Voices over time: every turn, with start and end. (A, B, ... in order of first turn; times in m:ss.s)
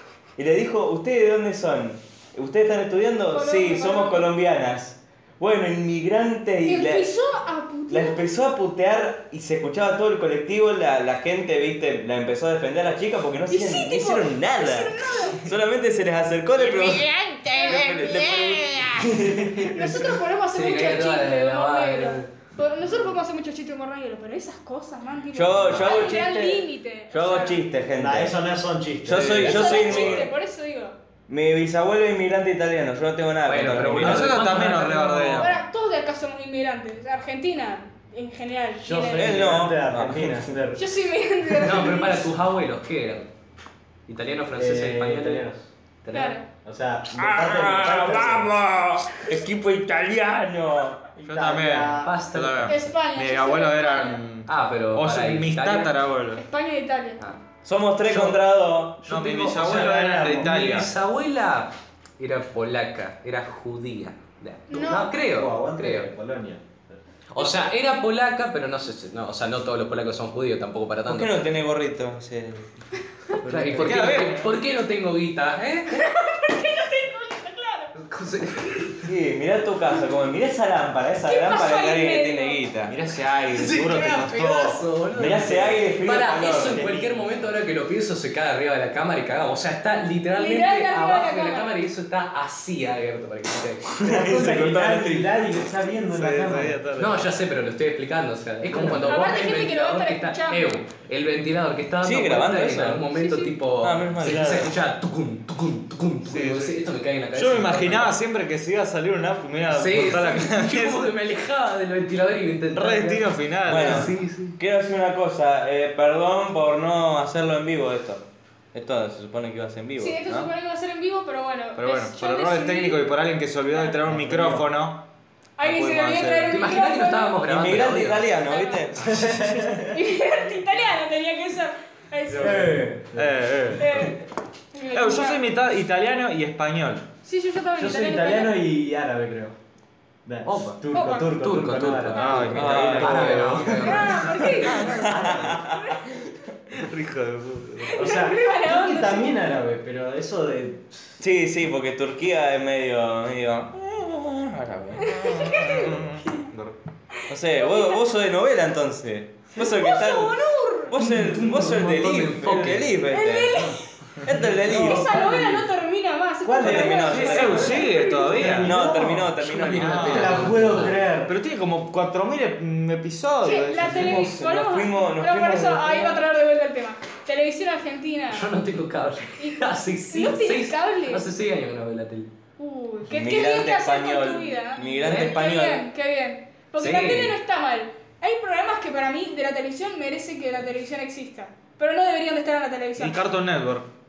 0:00.4-0:07.1 A
0:03.2-0:04.3 B
0:06.6-0:08.3 B
0:07.9-0:19.2 A
0:13.5-0:15.5 B
0:16.7-0:19.1 B
0:19.0-0:19.7 C
0:19.6-0:27.7 B
0:20.5-0:22.3 D
0:25.3-0:28.4 A
0:27.9-0:29.8 C
0:29.0-0:30.3 A
0:29.1-0:30.2 E
0:29.3-0:31.0 B
0:31.3-0:34.3 A
0:33.4-0:35.5 D
0:34.0-0:35.6 E
0:35.4-0:39.6 B
0:38.8-0:40.8 C
0:39.1-0:40.4 A
0:40.8-0:42.3 B
0:41.6-0:43.3 D
0:44.1-0:45.5 D
0:44.5-0:45.7 C
0:46.0-0:46.4 D
0:46.1-0:46.5 B
0:46.6-0:48.5 C
0:47.1-0:51.0 A
0:51.2-0:52.1 C
0:51.2-0:56.4 E
0:52.0-0:52.9 D
0:52.6-0:54.2 B
0:54.5-0:55.9 D
0:56.4-0:57.2 B
0:57.6-0:59.3 A
0:58.1-0:58.4 C
0:59.0-1:00.9 E
0:59.1-1:00.6 C
1:00.4-1:06.1 D
1:04.7-1:05.2 B
1:05.2-1:07.0 C
1:07.3-1:11.5 D
1:07.4-1:07.6 B
1:11.0-1:12.7 A
1:13.4-1:14.2 C
1:13.4-1:16.0 D
1:13.7-1:14.6 E
1:15.9-1:17.9 B
1:17.9-1:19.0 D
1:19.0-1:23.0 A
1:21.2-1:22.6 B
1:22.9-1:24.8 E
1:23.5-1:34.0 D
1:25.1-1:26.8 A
1:26.1-1:27.5 E
1:30.4-1:31.7 B
1:34.0-1:35.3 A
1:34.0-1:36.8 C
1:36.1-1:37.3 E
1:37.0-1:48.2 D
1:38.7-1:39.0 C
1:39.0-1:40.8 B
1:42.0-1:43.0 A
1:43.1-1:43.5 B
1:43.8-1:44.7 A
1:44.3-1:44.6 E
1:46.2-1:46.8 E
1:47.3-1:51.1 E
1:49.7-1:54.6 D
1:52.7-1:54.1 E
1:53.7-2:00.5 A
2:00.0-2:03.0 B
2:01.8-2:05.0 E
2:04.0-2:04.7 C
2:05.6-2:07.4 B
2:05.6-2:06.6 E
2:06.5-2:08.3 D
2:07.5-2:09.4 A
2:08.4-2:08.9 B
2:09.0-2:10.0 C
2:09.9-2:12.8 B
2:12.3-2:13.8 C
2:12.3-2:14.2 E
2:13.8-2:15.4 B
2:14.9-2:17.1 E
2:17.2-2:18.6 B
2:17.8-2:19.5 C
2:20.2-2:24.2 C
2:20.4-2:24.5 D
2:20.9-2:21.3 B
2:22.1-2:22.7 B
2:22.2-2:23.8 E
2:22.5-2:23.4 A
2:23.8-2:26.1 B
2:24.6-2:25.0 E
2:24.8-2:25.7 C
2:24.8-2:26.1 A
2:26.7-2:28.1 E
2:27.9-2:29.4 B
2:27.9-2:30.9 C
2:31.2-2:35.5 A
2:35.0-2:36.5 B
2:35.1-2:36.8 E
2:37.2-2:38.0 B
2:37.3-2:45.2 A
2:39.6-2:41.0 B
2:41.0-2:43.0 D
2:41.1-2:41.7 C
2:43.1-2:48.5 B
2:44.3-2:45.7 C
2:46.4-2:51.3 C
2:46.5-2:47.8 A
2:47.1-2:48.7 E
2:48.6-2:50.5 A
2:49.4-2:51.0 D
2:49.7-2:54.3 E
2:53.4-2:58.5 B
2:54.0-2:56.2 A
2:58.3-3:02.3 D
2:59.4-3:01.2 B
3:02.6-3:13.2 B
3:03.1-3:05.9 A
3:06.8-3:07.4 D
3:13.0-3:13.9 E